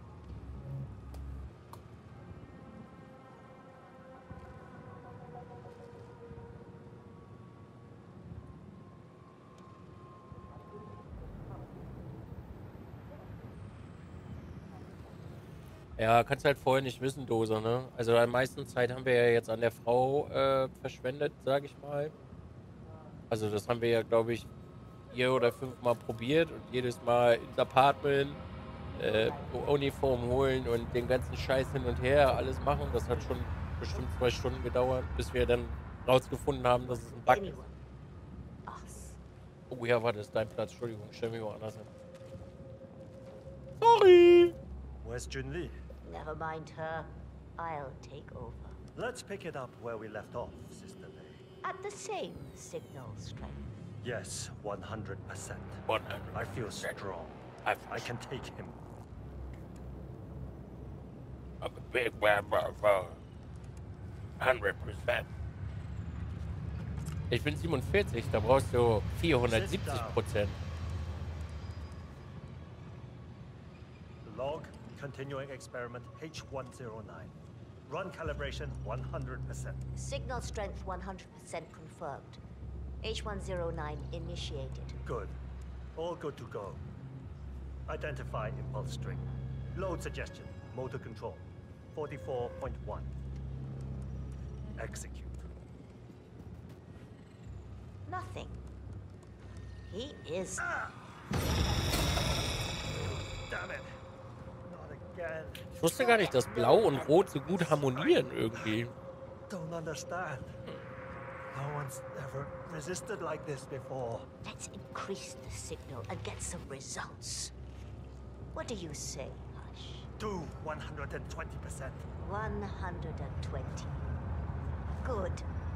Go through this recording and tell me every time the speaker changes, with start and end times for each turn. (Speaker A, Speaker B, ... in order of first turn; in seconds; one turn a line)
Speaker A: 16.0-22.1
Speaker A: 23.3-24.5
Speaker A: 25.1-28.4
Speaker A: 28.9-37.6
Speaker B: 29.0-29.5
Speaker B: 36.8-37.8
Speaker B: 38.6-39.2
Speaker A: 39.7-41.9
Speaker A: 43.8-44.5
Speaker C: 45.0-45.8
Speaker B: 46.0-48.8
Speaker C: 48.9-51.4
Speaker B: 51.6-53.7
Speaker C: 54.0-58.8
Speaker A: 55.9-57.0
Speaker A: 57.6-58.1
Speaker A: 61.6-63.2
Speaker A: 64.4-65.3
Speaker A: 67.3-70.6
Speaker C: 69.4-70.2
Speaker C: 74.2-77.3
Speaker C: 77.9-79.8
Speaker B: 79.9-82.4
Speaker B: 83.0-85.0
Speaker C: 85.0-85.4
Speaker C: 86.0-86.8
Speaker C: 87.9-93.1
Speaker C: 94.8-95.4
Speaker B: 98.0-98.6
Speaker B: 99.9-100.7
Speaker C: 100.6-100.9
Speaker C: 103.0-103.9
Speaker C: 104.6-108.8
Speaker A: 105.8-108.9
Speaker B: 106.2-107.0
Speaker C: 109.5-110.5
Speaker C: 111.5-114.3
Speaker B: 114.4-117.5
Speaker B: 118.5-120.1
Speaker C: 120.2-122.0
Speaker B: 122.2-124.0
Speaker B: 125.0-125.5